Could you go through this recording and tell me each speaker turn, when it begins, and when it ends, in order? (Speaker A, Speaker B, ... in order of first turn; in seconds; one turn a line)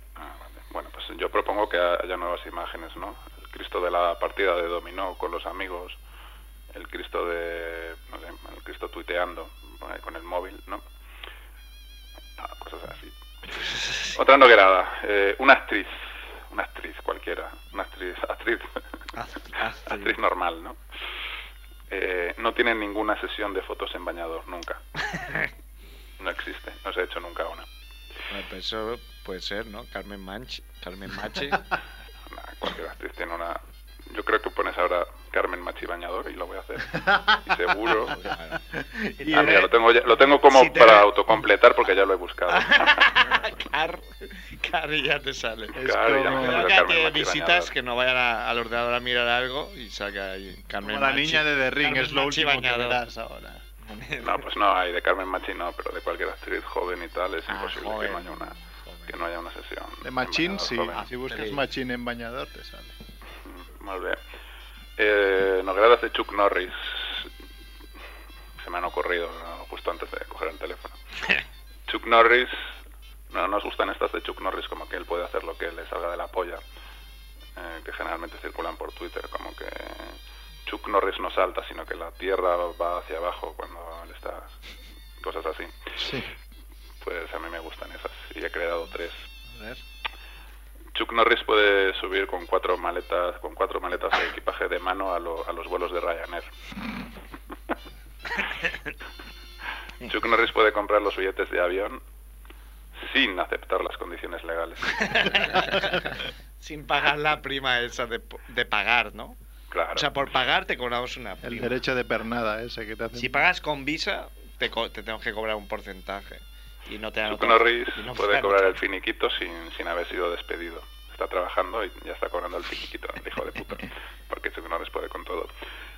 Speaker A: 0.2-6.0
Speaker A: 6.7-10.8
Speaker A: 12.4-15.9
Speaker A: 16.5-18.8
Speaker B: 19.1-20.2
Speaker A: 19.9-20.8
Speaker A: 21.9-24.8
Speaker A: 26.2-27.6
Speaker B: 28.3-31.7
Speaker A: 32.3-38.2
Speaker C: 37.0-37.3
Speaker B: 38.1-39.6
Speaker C: 39.2-39.7
Speaker A: 39.3-43.2
Speaker B: 40.3-41.1
Speaker B: 42.5-53.0
Speaker C: 45.8-46.7
Speaker A: 45.8-47.7
Speaker C: 50.8-53.6
Speaker B: 53.8-54.4
Speaker A: 54.2-58.5
Speaker B: 57.5-59.1
Speaker A: 59.1-61.0
Speaker C: 60.0-62.9
Speaker B: 60.9-61.6
Speaker A: 63.5-64.2
Speaker A: 65.0-67.3
Speaker A: 68.6-71.0
Speaker A: 71.9-72.7
Speaker A: 73.3-76.6
Speaker A: 77.5-84.5
Speaker A: 85.2-85.9
Speaker C: 86.0-86.3
Speaker A: 87.0-89.3
Speaker B: 89.5-89.8
Speaker A: 90.9-96.5
Speaker A: 100.0-102.0
Speaker A: 103.0-105.8
Speaker B: 105.0-109.3
Speaker A: 109.7-110.1
Speaker B: 109.9-111.8
Speaker C: 111.4-113.4
Speaker B: 113.1-118.8
Speaker A: 117.3-125.5